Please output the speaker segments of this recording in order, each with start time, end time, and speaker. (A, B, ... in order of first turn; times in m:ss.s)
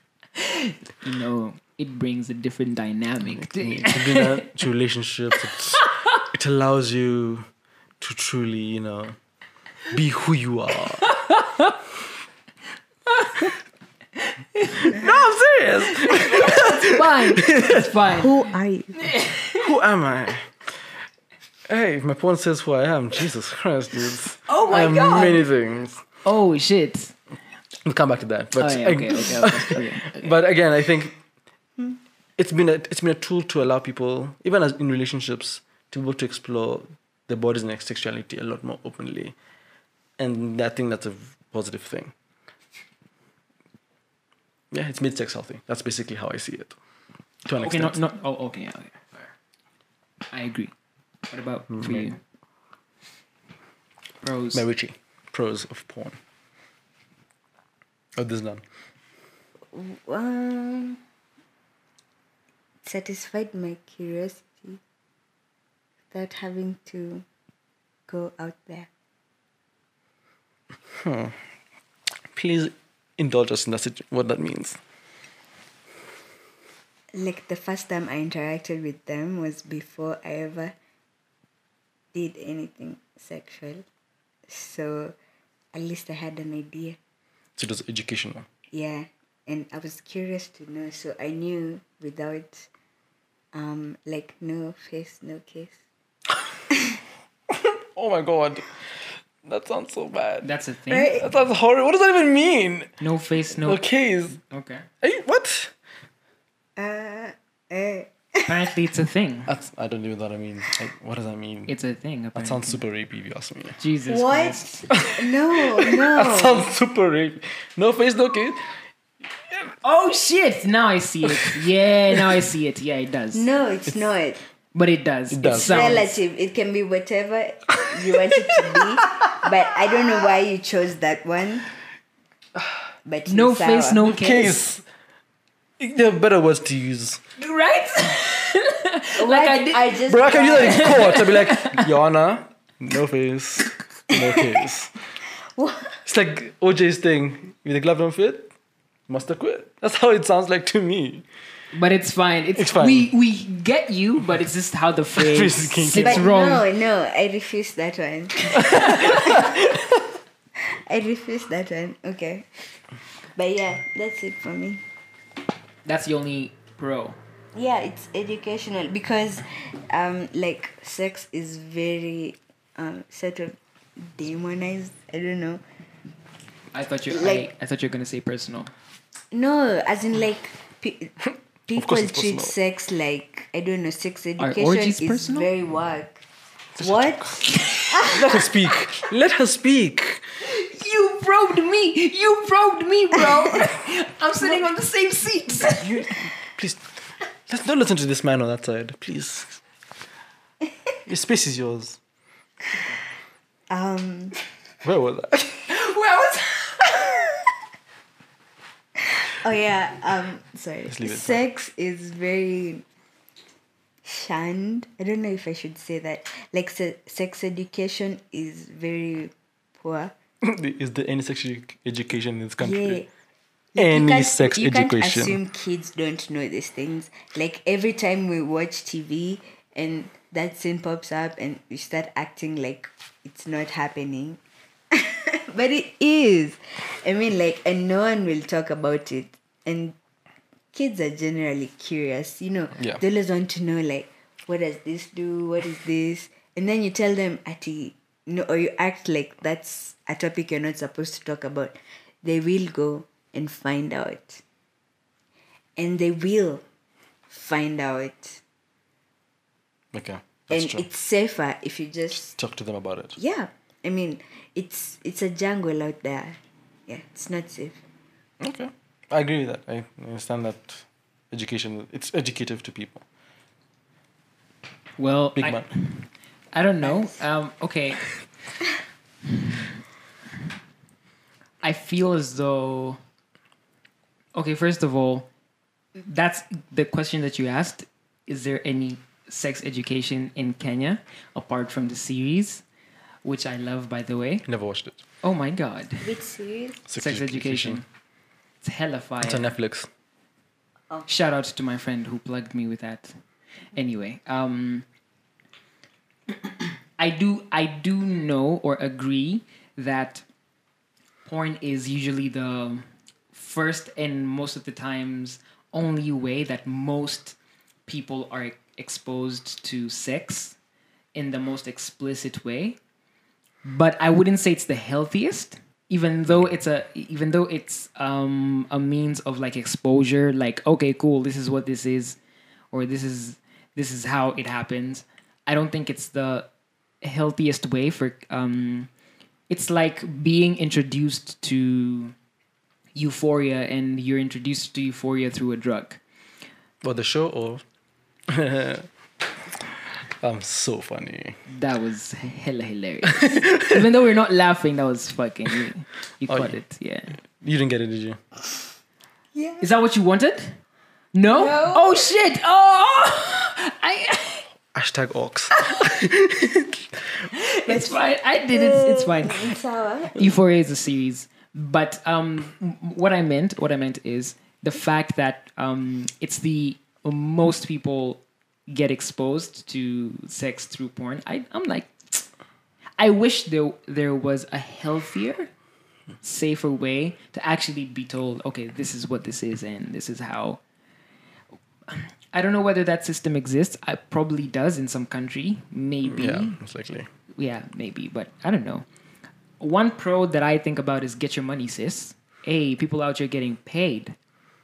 0:00.4-0:04.5 A
0:03.4-0:07.4 B
0:05.5-0:06.1 A
0:08.0-0:09.2 B
0:09.9-0:11.1 B
0:11.0-0:11.8 A
0:13.1-0:13.5 A
0:14.2-0:15.1 A
0:14.8-0:17.9 B
0:15.9-0:18.4 A
0:18.2-0:19.1 C
0:19.0-0:19.7 A
0:19.5-0:20.6 B
0:21.7-0:26.0 B
0:24.5-0:25.4 A
0:26.2-0:27.1 A
0:27.8-0:31.2 B
0:28.6-0:30.3 A
0:32.4-0:39.3 B
0:40.2-0:42.1 B
0:44.7-0:46.8 B
0:47.4-0:48.0 B
0:47.6-0:49.2 A
0:50.3-0:50.7 A
0:51.3-0:52.2 A
0:51.7-0:52.1 B
0:54.2-0:54.6 A
0:54.5-0:56.2 B
0:58.2-0:58.6 B
0:59.7-1:01.0 C
1:02.8-1:04.8 C
1:06.1-1:07.2 C
1:08.1-1:08.9 C
1:11.0-1:11.3 B
1:12.3-1:14.8 B
1:17.1-1:20.7 C
1:22.1-1:23.8 C
1:24.5-1:25.2 C
1:25.7-1:27.0 C
1:27.6-1:28.4 B
1:28.7-1:32.7 C
1:33.5-1:35.7 C
1:37.9-1:38.8 B
1:39.4-1:40.5 B
1:40.4-1:41.1 A
1:40.9-1:41.3 C
1:41.1-1:42.9 B
1:43.0-1:44.8 A
1:43.6-1:44.4 B
1:45.0-1:45.7 B
1:46.8-1:48.7 C
1:48.4-1:49.5 A
1:49.5-1:51.7 B
1:51.7-1:52.8 A
1:52.3-1:53.8 B
1:53.8-1:54.6 A
1:54.0-1:56.7 C
1:55.8-1:58.6 B
1:59.8-2:03.5 A
2:01.2-2:02.4 B
2:03.3-2:04.4 C
2:04.7-2:06.1 A
2:05.3-2:06.1 B
2:05.7-2:11.7 C
2:08.1-2:08.4 B
2:09.0-2:09.4 B
2:13.0-2:14.1 C
2:13.3-2:14.6 A
2:14.0-2:14.8 B
2:15.8-2:17.2 B
2:17.4-2:21.9 A
2:19.2-2:21.0 C
2:20.1-2:25.0 B
2:24.1-2:24.6 C
2:25.6-2:26.0 C
2:26.0-2:28.5 B
2:29.1-2:31.2 B
2:31.7-2:36.6 A
2:32.6-2:33.1 B
2:35.2-2:36.2 B
2:36.0-2:40.0 C
2:38.7-2:39.6 B
2:40.9-2:42.4 C
2:43.4-2:44.8 C
2:45.8-2:47.2 A
2:47.5-2:55.6 C
2:56.7-2:58.7 A
2:57.1-2:57.5 C
2:59.3-3:01.1 C
3:01.7-3:06.2 C
3:01.7-3:02.5 B
3:04.4-3:05.5 A
3:06.8-3:07.5 B
3:06.8-3:07.4 C
3:07.6-3:08.1 A
3:07.9-3:08.5 C
3:08.1-3:10.2 B
3:10.4-3:16.0 A
3:15.6-3:16.8 B
3:17.5-3:19.6 B
3:21.0-3:22.0 B
3:23.7-3:24.4 C
3:24.8-3:25.7 B
3:25.7-3:27.3 A
3:29.2-3:32.8 C
3:30.9-3:31.4 B
3:34.0-3:40.1 C
3:40.4-3:43.0 B
3:42.6-3:43.1 C
3:43.7-3:54.4 C
3:43.8-3:45.4 B
3:54.9-3:59.9 C
4:00.7-4:14.4 C
4:15.8-4:16.6 C
4:17.3-4:18.4 C
4:19.9-4:20.8 B
4:20.5-4:22.3 C
4:22.3-4:23.2 B
4:23.2-4:27.8 C
4:28.4-4:33.0 B
4:35.0-4:38.1 A
4:35.4-4:35.7 B
4:36.8-4:37.2 C
4:39.4-4:39.6 A
4:41.6-4:43.0 A
4:44.3-4:45.3 A
4:46.0-4:52.6 A
4:53.2-4:54.4 A
4:54.5-4:55.0 B
4:55.2-4:56.2 A
4:56.0-4:56.8 C
4:56.9-4:57.8 B
4:57.0-4:57.8 A
4:58.6-4:59.5 A
4:59.2-4:59.9 B
5:01.1-5:03.1 A
5:03.7-5:04.8 A
5:06.4-5:10.2 A
5:11.2-5:20.6 A
5:21.1-5:22.8 A
5:23.6-5:32.2 A
5:32.7-5:36.5 A
5:37.0-5:38.9 A
5:39.5-5:42.1 A
5:43.0-5:46.0 A
5:46.8-5:47.6 B
5:48.3-5:48.9 B
5:50.2-5:51.4 B
5:51.5-5:57.2 A
5:53.1-5:53.8 B
5:56.3-5:56.5 B
5:57.4-5:58.3 B
5:59.3-5:59.7 C
5:59.6-6:00.6 A
6:01.1-6:04.4 A
6:01.4-6:02.1 C
6:04.7-6:07.0 B
6:07.3-6:09.6 A
6:07.7-6:10.3 C
6:10.1-6:22.2 A
6:23.0-6:25.5 A
6:26.2-6:30.6 A
6:31.9-6:36.6 A
6:36.0-6:37.1 B
6:37.4-6:38.8 A
6:39.6-6:44.1 A